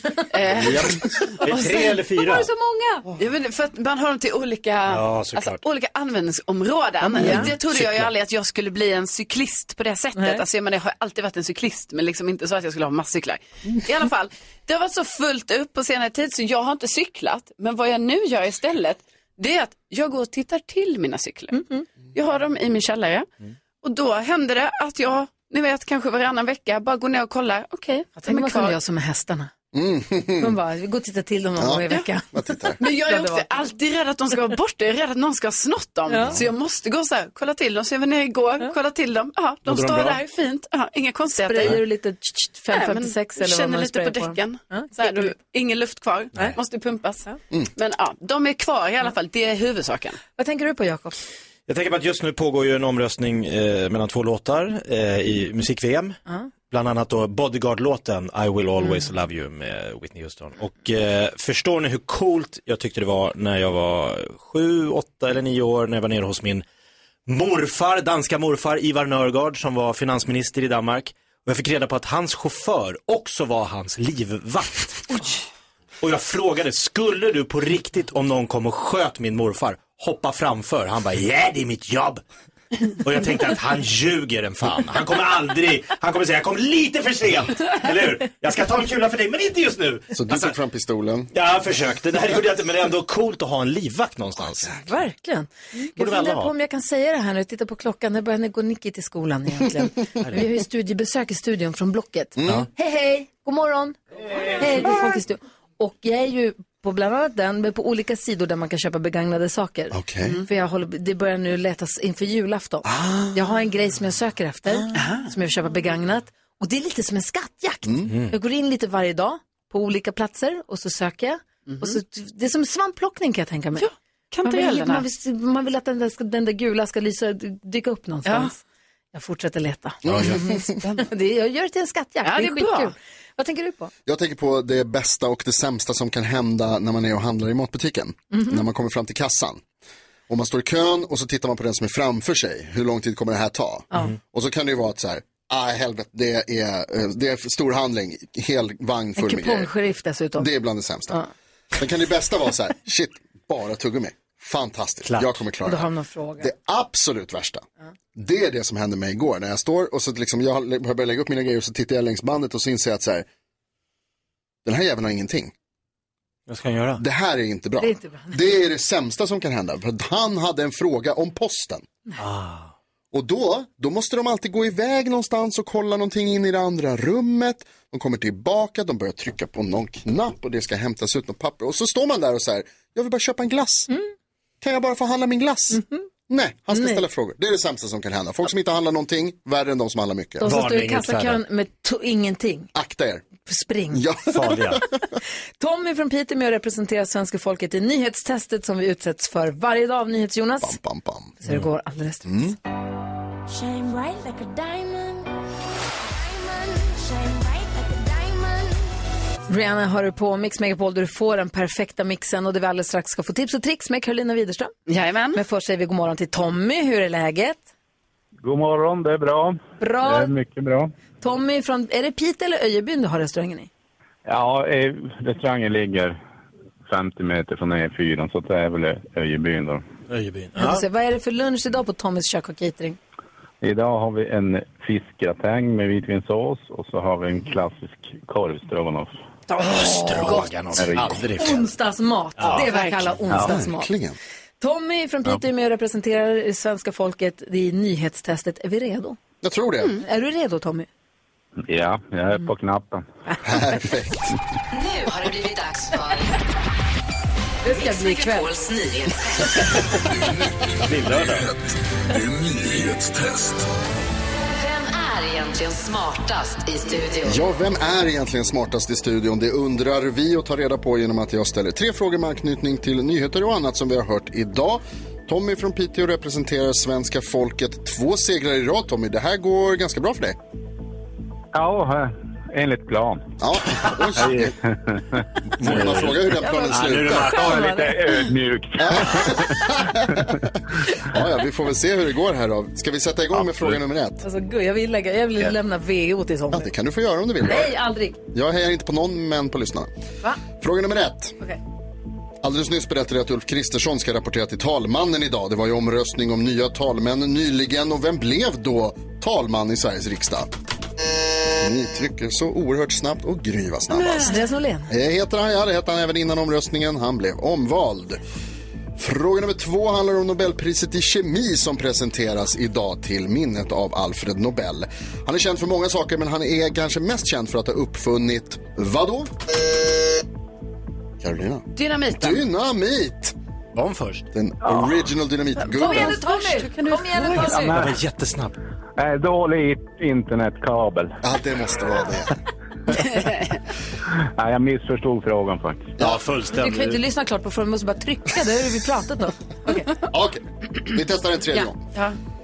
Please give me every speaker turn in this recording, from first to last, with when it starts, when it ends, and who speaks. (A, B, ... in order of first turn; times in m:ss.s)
0:00.3-0:01.8 A
0:00.5-0:02.5 B
0:02.3-0:03.0 C
0:03.1-0:21.6 A
0:04.9-0:05.6 B
0:07.0-0:07.5 C
0:07.2-0:08.1 B
0:10.2-0:10.4 C
0:21.5-0:21.8 C
0:22.1-0:23.3 A
0:23.8-0:28.8 A
0:28.2-0:29.5 C
0:29.7-0:30.5 D
0:30.4-0:33.5 C
0:31.6-0:32.8 D
0:32.8-0:41.8 A
0:36.1-0:36.4 C
0:39.6-0:40.2 B
0:41.3-0:45.3 C
0:42.7-0:50.2 A
0:50.4-0:51.2 C
0:51.7-0:56.2 B
0:56.7-1:06.6 B
1:07.3-1:15.3 B
1:16.0-1:22.2 B
1:22.9-1:30.5 B
1:30.1-1:31.3 D
1:31.3-1:34.8 B
1:34.6-1:44.0 C
1:36.0-1:36.5 B
1:42.4-1:42.7 D
1:44.5-2:03.9 C
1:49.9-1:50.4 D
1:52.8-1:53.4 D
1:54.9-1:55.3 A
1:57.8-1:58.1 D
2:01.7-2:02.0 A
2:03.8-2:05.0 A
2:04.4-2:08.6 C
2:08.2-2:08.5 A
2:09.1-2:13.9 C
2:10.0-2:10.6 D
2:10.1-2:10.4 B
2:12.2-2:12.9 A
2:14.0-2:19.6 D
2:18.3-2:18.6 C
2:20.3-2:29.7 D
2:29.2-2:30.5 C
2:30.4-2:31.2 D
2:31.7-2:37.6 D
2:35.1-2:35.4 B
2:35.6-2:36.5 C
2:38.1-2:43.3 D
2:44.6-2:45.5 D
2:46.5-2:47.0 B
2:47.0-2:51.8 D
2:47.8-2:48.4 C
2:52.2-2:52.7 B
2:53.1-3:03.9 D
3:04.6-3:10.5 D
3:05.7-3:06.0 C
3:06.7-3:07.0 C
3:10.4-3:12.7 C
3:10.4-3:11.4 B
3:12.7-3:13.2 D
3:13.4-3:14.0 C
3:13.9-3:14.8 D
3:14.3-3:14.8 B
3:15.6-3:20.8 C
3:20.6-3:21.4 D
3:21.4-3:22.5 C
3:22.2-3:22.6 D
3:23.5-3:25.3 E
3:26.0-3:29.0 E
3:29.5-3:34.7 C
3:34.9-3:35.4 A
3:35.3-3:37.6 C
3:38.4-3:40.9 F
3:39.8-3:40.3 C
3:41.2-3:43.7 C
3:44.2-3:46.2 F
3:46.9-3:49.8 F
3:50.1-3:50.8 B
3:50.6-3:53.0 C
3:53.6-3:59.2 F
3:59.5-4:00.5 C
3:59.6-4:01.6 B
4:00.8-4:01.2 F
4:01.3-4:03.9 C
4:02.4-4:02.6 B
4:02.7-4:03.1 A
4:03.3-4:04.2 D
4:04.6-4:09.2 C
4:09.4-4:10.0 D
4:10.0-4:10.9 C
4:11.7-4:13.0 F
4:13.4-4:14.3 D
4:14.7-4:16.4 G
4:17.6-4:18.5 C
4:17.7-4:19.7 G
4:20.8-4:21.5 B
4:21.1-4:23.6 H
4:24.5-4:27.4 G
4:27.2-4:40.4 D
4:41.5-4:43.3 F
4:43.4-4:44.6 D
4:44.2-4:45.0 F
4:45.6-4:47.4 D
4:45.6-4:47.6 B
4:46.4-4:48.1 C
4:47.3-4:49.5 F
4:48.8-4:50.4 D
4:51.0-4:54.2 D
4:54.2-4:56.7 C
4:56.5-4:57.8 D
4:57.4-4:58.2 C
4:58.3-4:59.9 D
5:00.6-5:01.4 D
5:02.4-5:10.5 D
5:11.6-5:14.4 D
5:14.0-5:14.9 C
5:14.9-5:18.2 D
5:19.0-5:29.3 D
5:31.2-5:33.3 D
5:31.7-5:32.4 A
5:33.7-5:34.2 B
5:34.3-5:36.2 D
5:35.6-5:37.5 A
5:35.7-5:37.8 C
5:37.4-5:38.0 F
5:37.5-5:38.5 B
5:39.0-5:41.2 F
5:41.2-5:42.4 D
5:44.4-5:45.9 F
5:46.0-5:47.0 B
5:46.5-5:49.9 C
5:50.1-5:51.8 D
5:51.5-5:52.2 A